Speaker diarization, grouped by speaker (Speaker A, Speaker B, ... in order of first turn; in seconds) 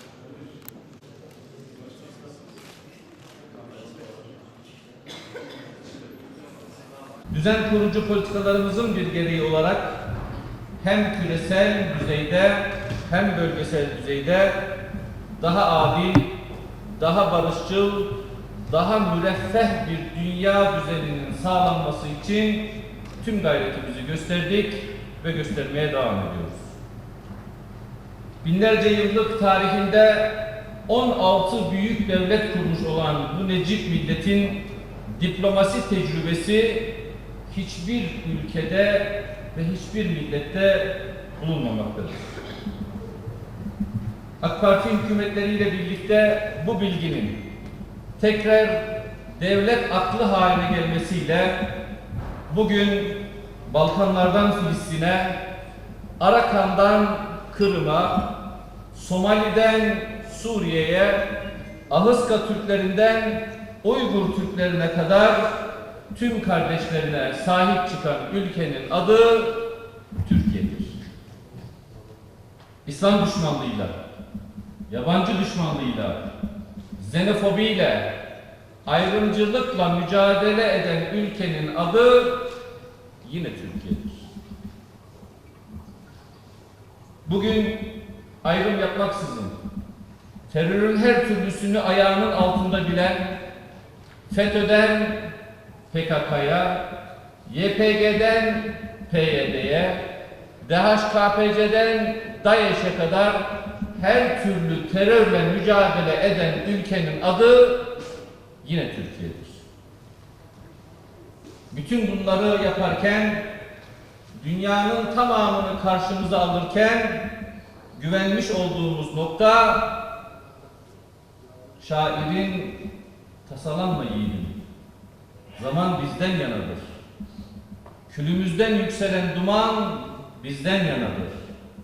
Speaker A: 7.3-10.0, 10.8-14.6, 15.4-16.3, 17.0-18.2, 18.7-26.7, 28.4-37.0, 37.5-42.3, 44.4-47.4, 48.2-51.6, 52.5-55.4, 56.2-58.3, 58.9-61.3, 61.9-65.5, 66.1-69.6, 70.2-71.0, 72.8-74.0, 74.9-76.2, 77.0-78.2, 78.8-82.4, 83.2-84.2, 87.2-87.9, 88.4-89.5, 90.5-93.3, 94.3-95.3, 95.9-96.8, 97.5-100.0, 100.6-107.8, 108.6-109.6, 111.7-113.4, 114.4-117.3, 118.0-119.9, 121.8-122.8, 123.5-124.6, 125.6-126.9, 128.1-131.4